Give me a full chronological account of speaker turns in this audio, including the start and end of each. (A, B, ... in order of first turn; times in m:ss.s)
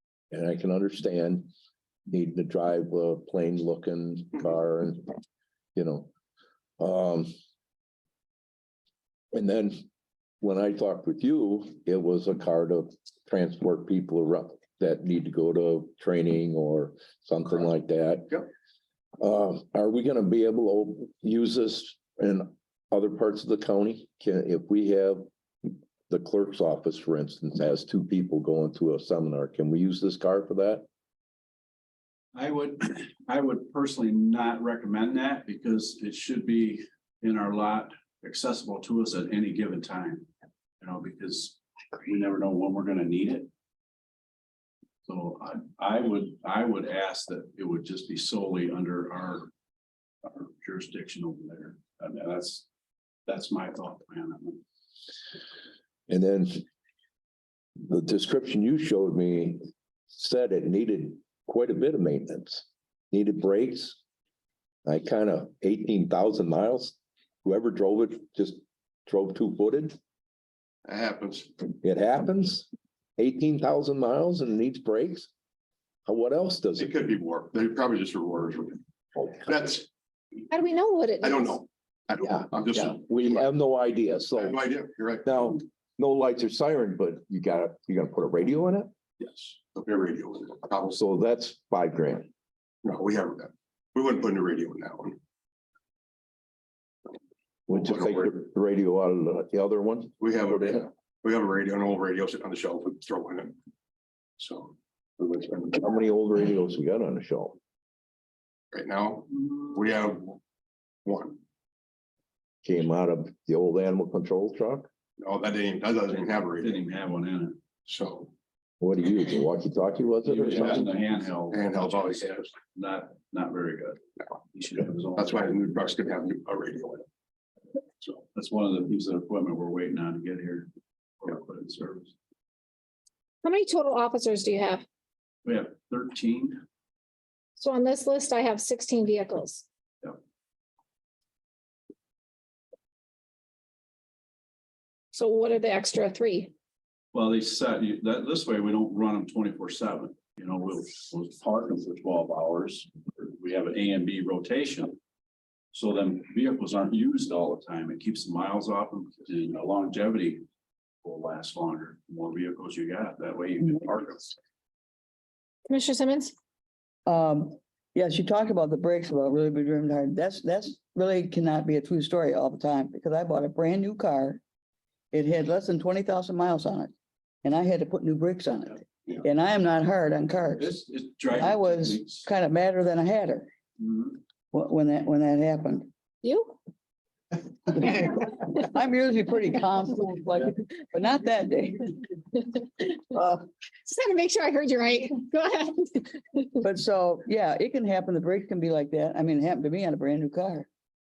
0:00.3-0:01.5 A
0:02.1-0:05.1 A
0:05.8-0:06.1 A
0:06.8-0:07.3 A
0:09.3-0:09.8 A
0:10.4-0:18.4 A
0:19.2-0:30.9 A
0:32.3-0:40.3 B
0:40.8-0:43.5 B
0:45.1-0:49.5 B
0:50.2-0:52.7 B
0:53.3-0:54.6 B
0:56.1-0:56.6 A
0:57.8-1:04.0 A
1:04.9-1:10.0 A
1:10.8-1:11.5 C
1:11.8-1:15.3 A
1:16.1-1:16.9 A
1:16.8-1:18.8 C
1:19.4-1:19.9 C
1:20.5-1:21.6 D
1:21.2-1:23.5 C
1:22.2-1:24.6 A
1:24.4-1:25.3 C
1:25.2-1:28.9 A
1:29.2-1:31.0 C
1:30.9-1:32.3 A
1:32.8-1:35.2 C
1:37.7-1:40.8 A
1:37.7-1:38.3 C
1:40.2-1:43.6 C
1:44.4-1:45.8 C
1:45.6-1:47.6 A
1:48.7-1:50.4 C
1:51.0-1:51.4 C
1:52.6-1:54.9 A
1:55.2-1:56.8 C
1:56.6-1:57.6 B
1:57.9-1:58.3 C
1:58.8-2:00.9 A
2:00.2-2:04.0 B
2:00.5-2:00.8 C
2:01.5-2:02.5 C
2:04.5-2:05.5 B
2:05.2-2:07.0 C
2:08.3-2:10.7 B
2:11.2-2:12.1 B
2:13.4-2:14.8 D
2:15.4-2:16.6 B
2:17.6-2:19.7 D
2:25.1-2:26.5 D
2:27.1-2:35.0 B
2:35.7-2:40.4 B
2:41.0-2:44.4 B
2:45.7-2:46.4 D
2:47.1-2:54.4 E
2:55.1-2:56.9 E
2:57.4-3:00.7 E
3:00.6-3:02.3 B
3:01.3-3:03.5 E
3:03.8-3:04.2 B
3:04.5-3:05.9 E
3:06.2-3:06.6 D
3:07.7-3:11.9 E
3:13.9-3:16.5 D
3:16.6-3:20.7 E